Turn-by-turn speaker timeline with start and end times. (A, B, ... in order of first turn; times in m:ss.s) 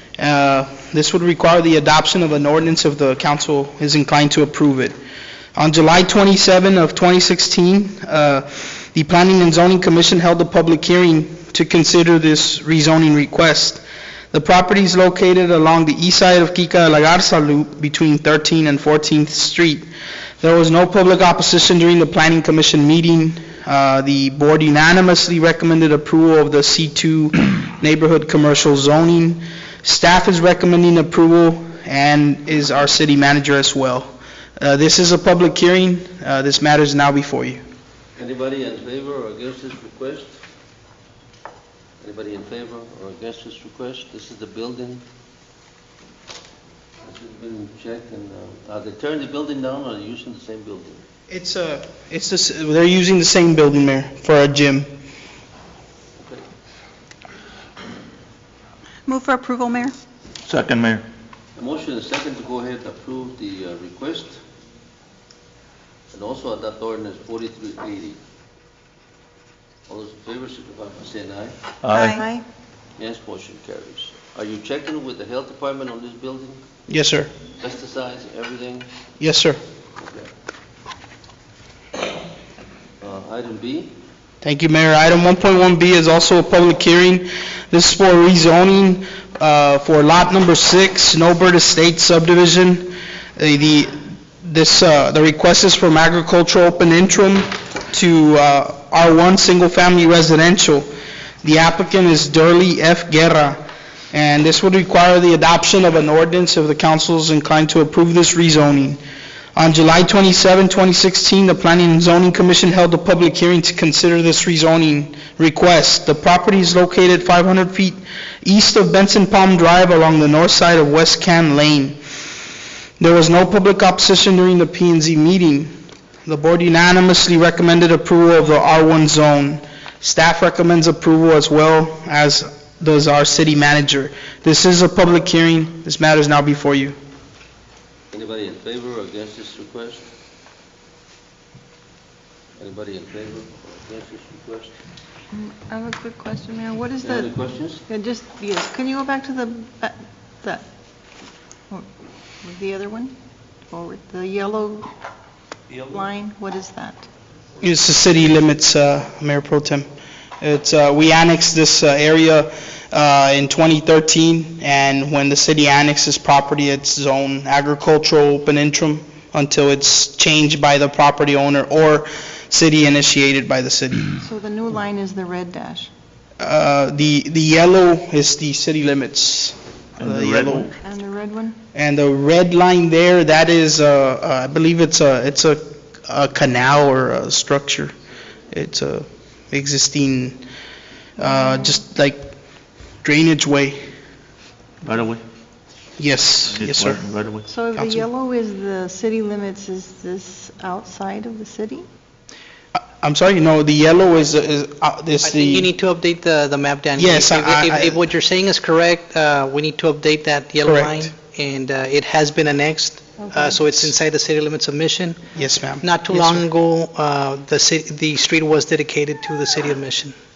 0:00.2-0:05.0 A
0:05.5-0:19.9 A
0:20.4-0:37.6 A
0:38.2-0:40.4 B
0:42.0-0:45.0 B
0:47.0-0:51.0 B
0:51.3-0:54.9 A
0:56.2-0:56.4 B
0:59.1-1:00.0 C
1:00.4-1:01.0 D
1:01.6-1:04.4 B
1:06.1-1:08.2 B
1:09.9-1:11.6 B
1:11.8-1:12.2 D
1:11.9-1:12.4 C
1:13.0-1:16.6 B
1:16.9-1:17.3 A
1:17.6-1:18.9 B
1:19.2-1:19.6 A
1:20.0-1:20.3 B
1:23.0-1:23.9 B
1:24.4-1:40.9 A
1:41.4-1:43.6 A
1:44.1-1:49.0 A
1:49.6-2:02.0 A
2:03.0-2:05.7 A
2:06.2-2:17.0 A
2:18.1-2:20.1 B
2:22.6-2:24.8 B
2:25.3-2:27.3 C
2:27.0-2:27.8 B
2:27.9-2:30.7 C
2:32.4-2:33.1 C
2:33.7-2:34.9 C
2:35.8-2:37.0 C
2:37.6-2:39.9 A
2:40.4-2:54.2 A
2:54.2-2:55.9 C
2:56.4-3:00.7 A
3:00.0-3:00.8 D
3:00.8-3:01.6 C
3:01.7-3:07.9 A
3:08.5-3:10.4 A
3:11.2-3:12.3 A
3:11.2-3:11.8 C
3:13.0-3:13.8 A
3:14.8-3:15.2 D
3:16.0-3:17.0 A
3:16.5-3:17.5 D
3:17.5-3:21.8 C
3:17.8-3:18.0 A
3:22.8-3:25.7 A
3:25.2-3:35.2 E
3:27.0-3:28.0 A
3:30.6-3:31.1 A
3:33.2-3:33.7 C
3:35.3-3:36.4 A
3:35.8-3:40.2 E